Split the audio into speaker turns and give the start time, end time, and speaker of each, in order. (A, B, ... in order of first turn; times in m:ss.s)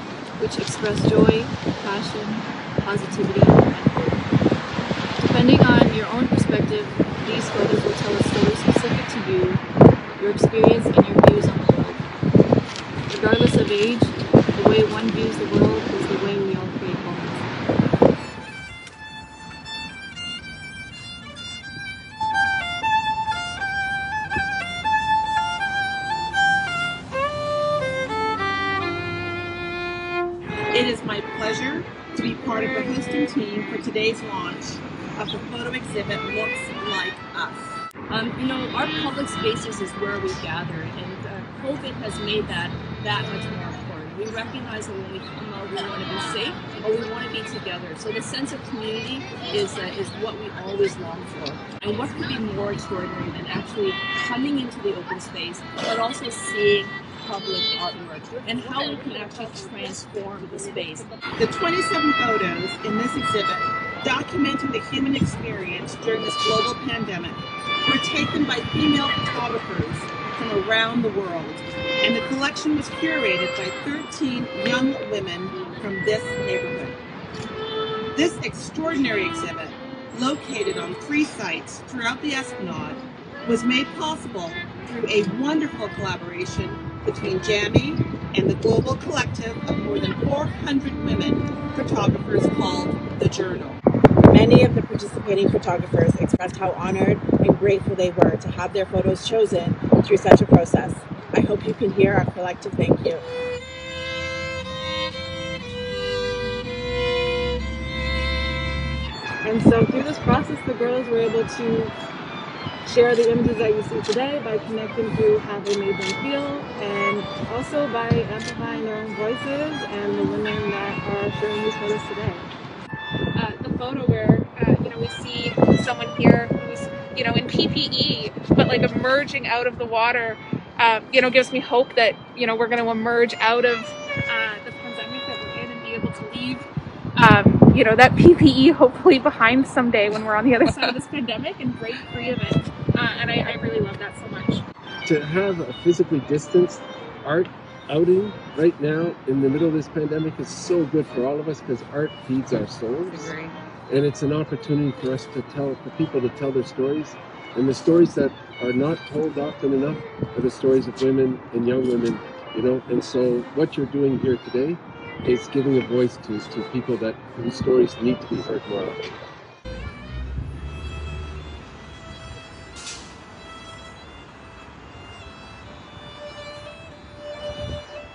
0:00.4-0:04.2 A
0:05.2-0:09.6 A
0:10.2-0:12.0 A
0:13.1-0:17.4 A
0:30.7-0:37.8 B
0:38.1-1:01.1 C
1:01.4-1:17.0 B
1:18.1-1:33.8 B
1:34.3-1:43.2 D
1:49.4-1:51.9 A
1:52.8-2:02.4 A
2:03.4-2:16.6 E
2:17.2-2:24.6 E
2:25.0-2:49.0 F